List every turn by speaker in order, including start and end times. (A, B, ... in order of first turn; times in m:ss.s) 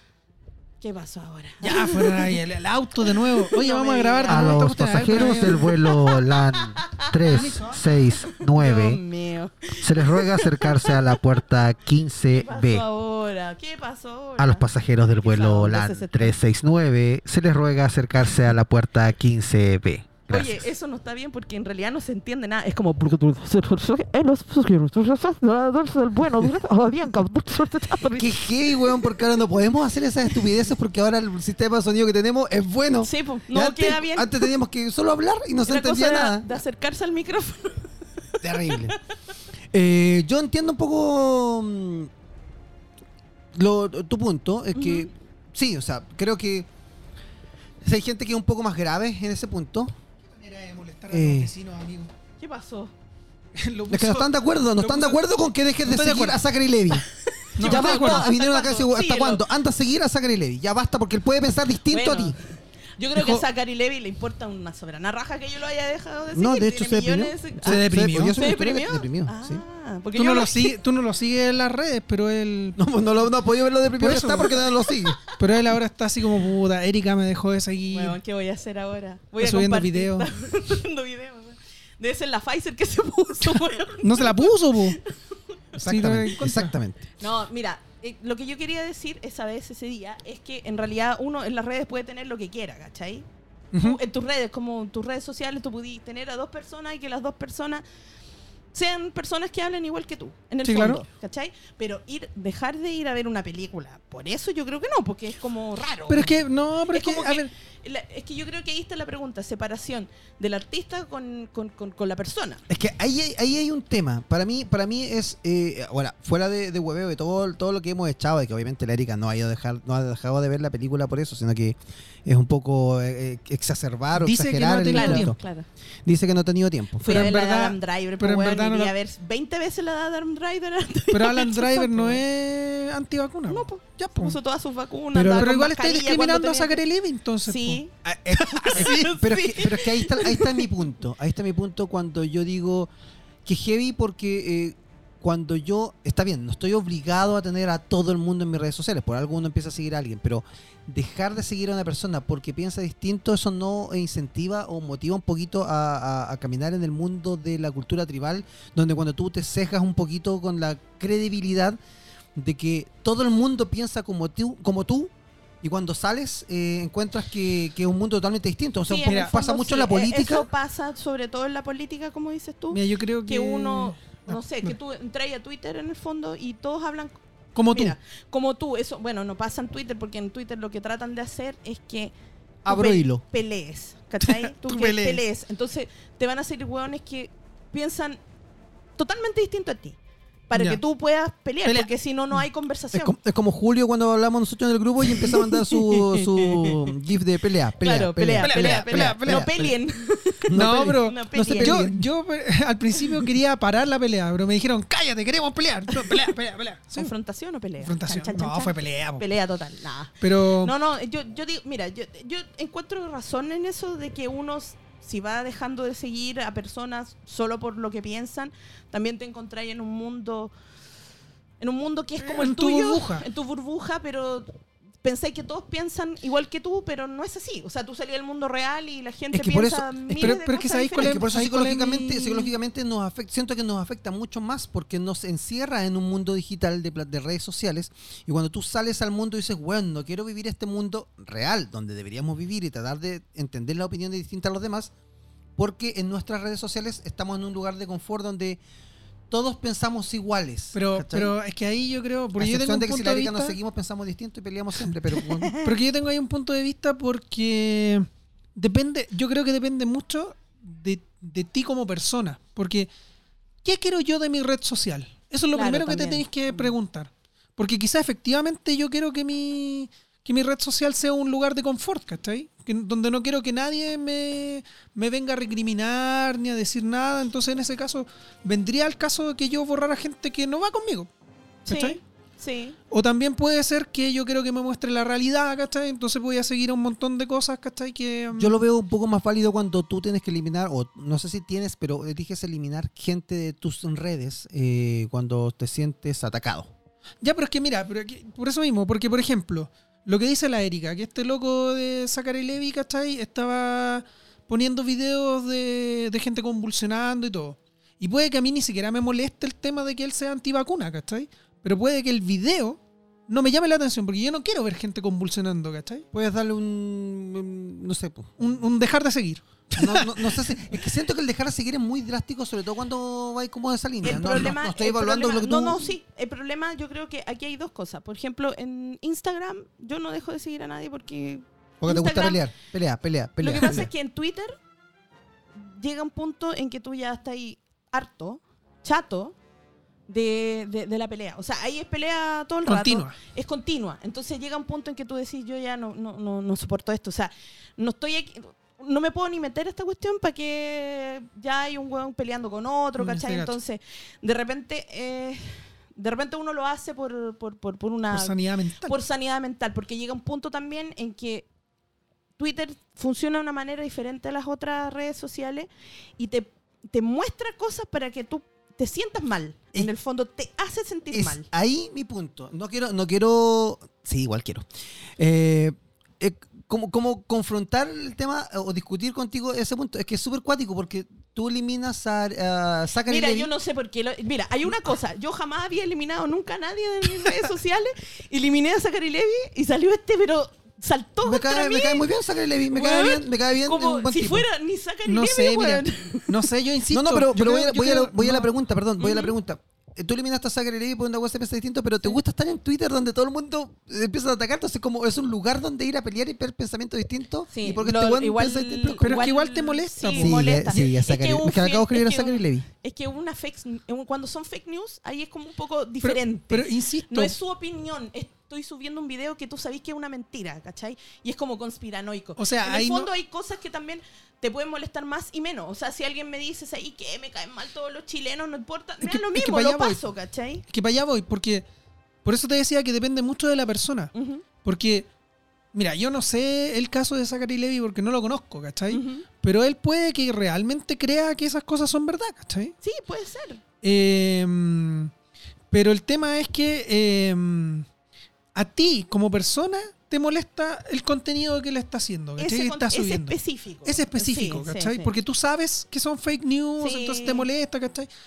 0:00.8-0:02.4 A
0:01.6-0:05.7 B
0:03.0-0:07.5 A
0:04.2-0:09.0 C
0:07.3-0:07.8 B
0:08.3-0:11.2 A
0:09.8-0:12.8 C
0:12.3-0:14.7 A
0:14.4-0:20.6 C
0:15.2-0:16.4 A
0:20.3-0:29.1 A
0:28.1-0:36.5 C
0:33.0-0:34.5 A
0:35.7-0:39.0 A
0:38.4-0:39.0 C
0:39.7-0:42.1 C
0:43.5-0:46.7 C
0:44.8-0:45.1 A
0:47.8-0:49.9 C
0:50.3-0:52.1 B
0:51.1-0:51.5 C
0:52.4-0:52.9 A
0:53.6-0:55.2 B
0:53.9-0:57.0 C
0:55.8-0:56.4 B
0:57.3-0:59.4 A
0:57.6-0:58.3 B
0:57.6-1:02.4 C
1:01.9-1:10.8 A
1:03.2-1:03.4 B
1:06.3-1:09.6 C
1:07.6-1:08.4 B
1:10.2-1:12.8 B
1:12.8-1:15.2 C
1:14.0-1:14.7 B
1:14.9-1:15.4 A
1:15.4-1:18.2 B
1:17.9-1:25.6 A
1:19.4-1:20.3 B
1:24.0-1:25.0 B
1:25.7-1:26.7 B
1:25.8-1:27.1 C
1:27.2-1:33.3 A
1:33.7-1:34.0 B
1:33.8-1:37.8 A
1:38.7-1:46.3 A
1:40.6-1:41.0 B
1:46.1-1:47.5 B
1:46.9-1:52.6 A
1:52.7-2:05.4 C
2:04.2-2:05.4 B
2:04.9-2:05.7 A
2:06.0-2:07.3 C
2:07.0-2:12.2 A
2:07.0-2:08.9 B
2:11.1-2:14.4 B
2:13.5-2:16.8 A
2:15.1-2:19.2 B
2:17.4-2:20.7 A
2:18.0-2:22.9 C
2:23.4-2:41.8 C
2:42.4-2:50.5 C
2:48.9-2:57.2 A
2:49.0-2:49.4 B
2:52.7-2:54.8 B
2:57.6-2:58.0 B
2:57.7-3:02.1 A
3:02.6-3:03.2 C
3:02.7-3:08.2 A
3:04.2-3:05.2 B
3:09.0-3:10.0 A
3:10.5-3:13.1 A
3:10.5-3:10.8 B
3:12.9-3:19.7 C
3:15.1-3:16.9 A
3:17.8-3:21.9 A
3:18.4-3:19.7 B
3:20.5-3:22.0 C
3:20.5-3:27.1 B
3:25.9-3:26.3 A
3:26.9-3:40.5 A
3:27.8-3:29.2 B
3:30.2-3:30.7 B
3:41.6-3:51.2 A
3:42.2-3:43.3 B
3:49.3-3:50.3 C
3:50.1-3:52.5 B
3:51.0-4:04.9 C
4:05.6-4:08.6 C
4:09.3-4:11.3 C
4:10.7-4:13.6 B
4:12.4-4:15.5 C
4:15.3-4:15.7 A
4:15.6-4:22.9 B
4:23.6-4:41.1 B
4:25.5-4:26.7 A
4:41.6-4:42.0 B
4:41.7-4:42.8 A
4:42.9-4:48.6 B
4:48.3-4:56.7 C
4:57.2-5:16.0 B
5:16.1-5:18.3 C
5:18.4-5:20.4 B
5:19.8-5:25.9 C
5:24.0-5:32.4 A
5:31.8-5:33.9 C
5:33.4-5:34.6 A
5:35.6-5:39.4 A
5:40.1-6:01.5 A
5:42.7-5:43.2 B
5:53.0-5:53.6 B
5:58.1-5:59.0 B
6:02.4-6:11.5 A
6:11.1-6:23.5 C
6:23.0-6:32.1 A
6:31.2-6:34.5 C
6:32.7-6:36.5 A
6:35.1-6:38.5 B
6:36.9-6:49.2 C
6:39.0-6:39.4 A
6:47.5-7:10.6 A
6:49.0-6:50.5 B
6:50.2-6:52.7 C
6:56.0-6:57.4 B
7:02.4-7:03.1 B
7:09.0-7:10.0 B
7:10.7-7:11.7 B
7:12.2-7:14.1 B
7:14.2-7:14.4 A
7:14.6-7:15.1 B
7:15.7-7:22.8 B
7:18.9-7:19.3 A
7:22.8-7:23.6 A
7:23.8-7:25.1 B
7:25.7-7:27.9 B
7:28.6-7:38.1 B
7:32.4-7:35.1 A
7:36.8-7:37.5 A